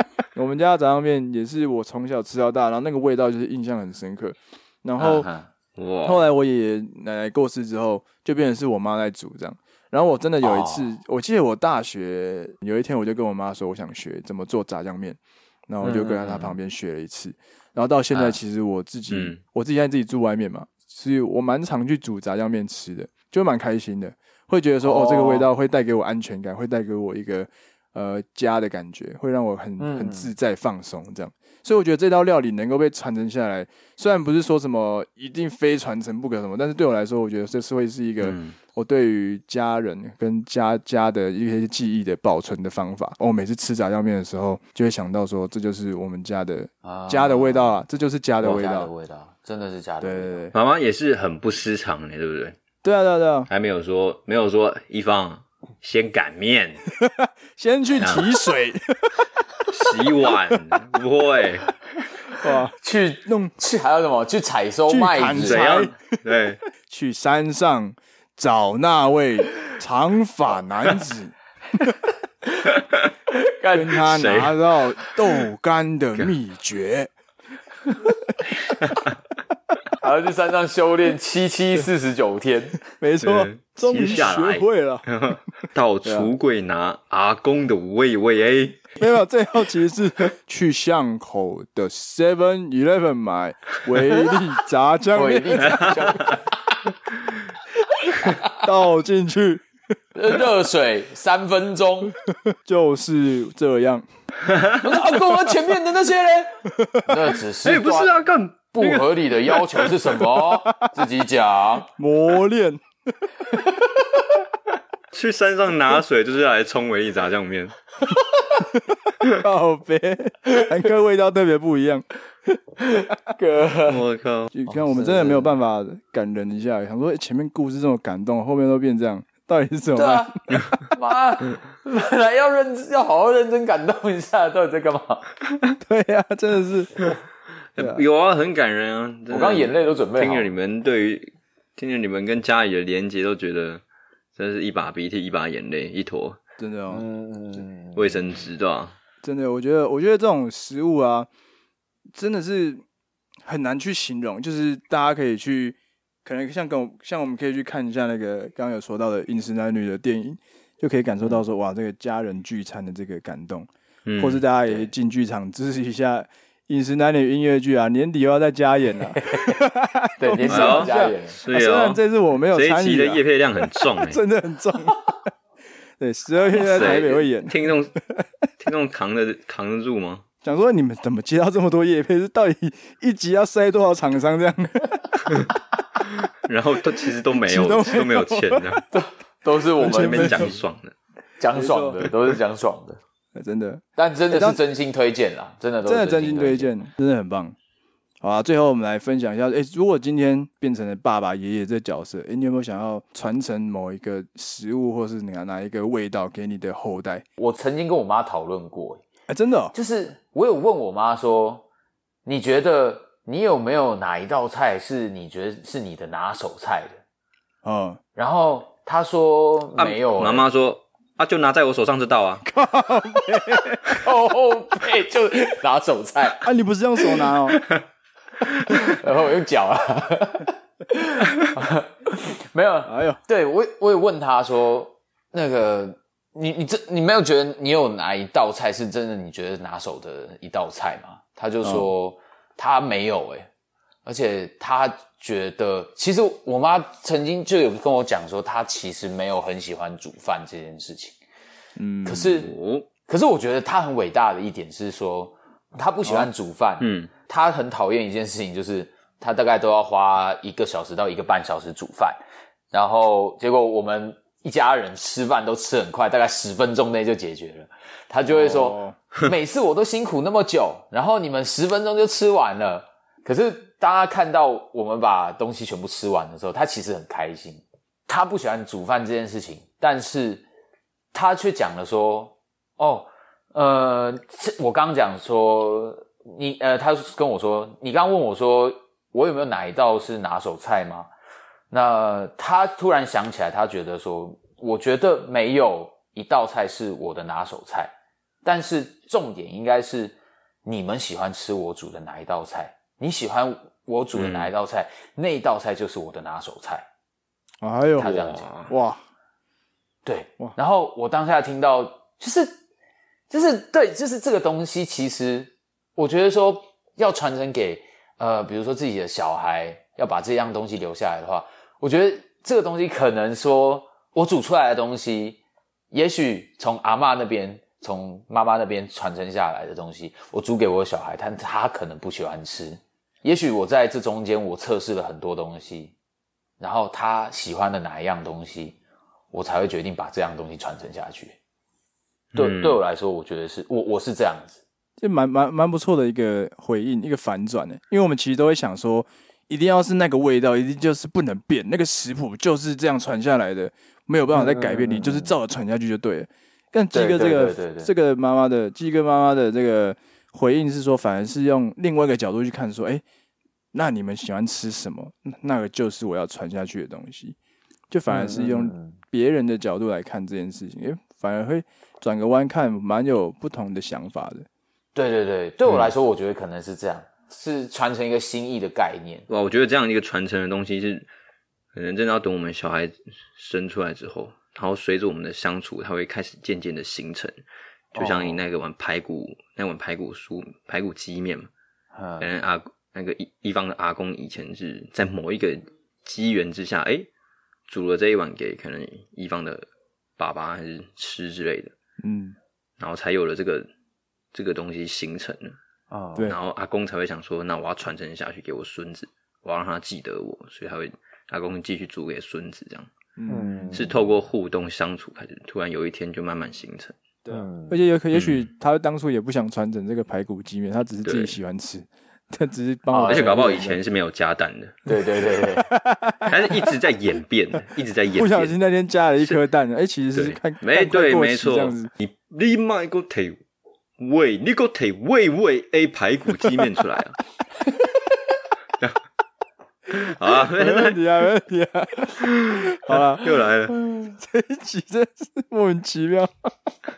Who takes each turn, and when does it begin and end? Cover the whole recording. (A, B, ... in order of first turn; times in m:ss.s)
0:00.4-0:05.3 A
0:05.0-0:05.5 B
0:05.8-0:06.3 C
0:06.0-0:48.9 A
0:10.4-0:10.9 B
0:15.8-0:16.6 B
0:19.1-0:19.4 C
0:24.8-0:25.5 B
0:29.8-0:30.3 B
0:38.2-0:38.6 C
0:46.8-0:47.8 B
0:48.4-0:50.4 B
0:50.0-0:50.5 A
0:50.5-0:52.6 C
0:52.8-0:53.5 A
0:53.5-0:56.8 C
0:56.9-0:59.3 A
0:58.0-0:58.3 C
0:59.7-1:01.7 C
0:59.8-1:00.7 A
1:02.4-1:03.5 A
1:02.8-1:05.7 B
1:04.9-1:06.2 A
1:05.4-1:06.6 C
1:06.9-1:11.4 A
1:12.5-1:12.7 B
1:13.3-1:14.0 B
1:13.7-1:17.1 A
1:14.1-1:14.7 C
1:20.0-1:22.8 B
1:23.0-1:25.1 A
1:23.2-1:28.9 C
1:26.0-1:26.3 A
1:29.0-1:35.9 A
1:35.1-1:36.8 B
1:38.0-1:38.6 B
1:38.5-1:39.6 A
1:40.2-1:42.1 B
1:42.2-1:44.0 A
1:44.4-1:44.8 C
1:44.7-1:48.2 B
1:46.7-1:47.3 A
1:47.6-1:49.9 C
1:48.7-1:51.9 B
1:50.7-1:51.0 A
1:52.0-1:52.8 A
1:53.5-1:54.2 B
1:55.1-1:57.8 C
1:58.7-2:02.0 A
2:02.8-2:04.0 B
2:03.8-2:04.5 C
2:04.5-2:10.7 A
2:04.7-2:05.5 B
2:10.0-2:15.2 B
2:15.8-2:16.9 A
2:17.8-2:23.8 C
2:17.8-2:18.0 A
2:19.3-2:20.5 B
2:24.4-2:26.4 C
2:26.6-2:27.0 A
2:26.9-2:28.0 B
2:28.0-2:29.0 C
2:29.2-2:31.3 A
2:32.1-2:32.8 A
2:33.4-2:55.1 A
2:44.1-2:44.4 C
2:49.2-2:49.6 B
2:50.2-2:51.4 B
2:50.5-2:54.2 C
2:56.0-2:58.3 A
2:56.5-2:58.0 C
2:58.6-3:00.2 C
3:00.4-3:05.2 A
3:06.0-3:08.9 C
3:07.4-3:08.8 A
3:08.9-3:10.6 B
3:09.8-3:10.6 A
3:09.8-3:10.9 C
3:11.4-3:13.0 B
3:11.5-3:12.1 A
3:13.4-3:14.6 A
3:14.0-3:16.7 B
3:15.8-3:17.6 A
3:18.2-3:27.2 A
3:27.4-3:29.0 B
3:29.3-3:29.7 A
3:29.7-3:31.6 B
3:32.3-3:37.0 B
3:37.6-3:38.0 A
3:38.2-3:40.5 B
3:39.8-3:42.5 C
3:42.5-3:44.1 A
3:43.8-3:46.4 B
3:46.4-3:47.6 A
3:48.7-4:03.5 B
3:52.9-3:53.2 A
4:01.6-4:01.9 A
4:04.1-4:11.2 B
4:11.8-4:12.3 A
4:12.0-4:12.5 B
4:12.2-4:12.9 C
4:13.0-4:22.2 B
4:16.8-4:17.1 C
4:22.7-4:40.4 B
4:28.3-4:29.0 A
4:41.1-4:51.1 B
4:51.7-4:57.9 B
4:58.4-5:06.9 B
5:04.2-5:04.5 C
5:07.6-5:09.0 A
5:08.0-5:08.5 B
5:08.0-5:08.7 C
5:10.0-5:12.5 B
5:13.3-5:25.4 B
5:25.9-5:35.9 B
5:36.6-5:38.8 B
5:39.3-5:41.4 B
5:42.3-5:42.8 C
5:42.4-5:44.6 B
5:45.0-6:03.0 A
5:54.3-5:55.4 B
5:56.9-5:57.9 B
6:03.7-6:07.4 A
6:07.9-6:14.5 A
6:08.1-6:09.0 B
6:15.0-6:19.3 B
6:19.3-6:21.1 C
6:21.7-6:27.4 C
6:27.9-6:31.5 C
6:28.0-6:28.4 B
6:32.0-6:32.3 B
6:32.2-6:37.1 C
6:37.7-6:39.7 C
6:40.2-6:41.7 C
6:42.0-6:42.4 A
6:42.8-6:43.7 C
6:44.3-6:45.6 C
6:45.9-6:46.3 B
6:46.2-6:52.9 C
6:53.2-6:53.8 A
6:53.3-6:53.9 B
6:53.7-6:57.0 C
6:57.2-7:03.8 A
6:57.3-6:57.8 B
6:58.1-6:58.5 C
7:01.0-7:01.4 C
7:02.9-7:03.8 B
7:03.1-7:04.8 C
7:04.9-7:05.7 B
7:05.6-7:06.8 A
7:06.3-7:08.6 C
7:08.2-7:11.9 A
7:10.1-7:13.4 C
7:14.0-7:17.2 C
7:16.4-7:16.7 A
7:19.9-7:21.0 C
7:20.5-7:23.3 A
7:22.2-7:23.8 C
7:24.2-7:26.5 A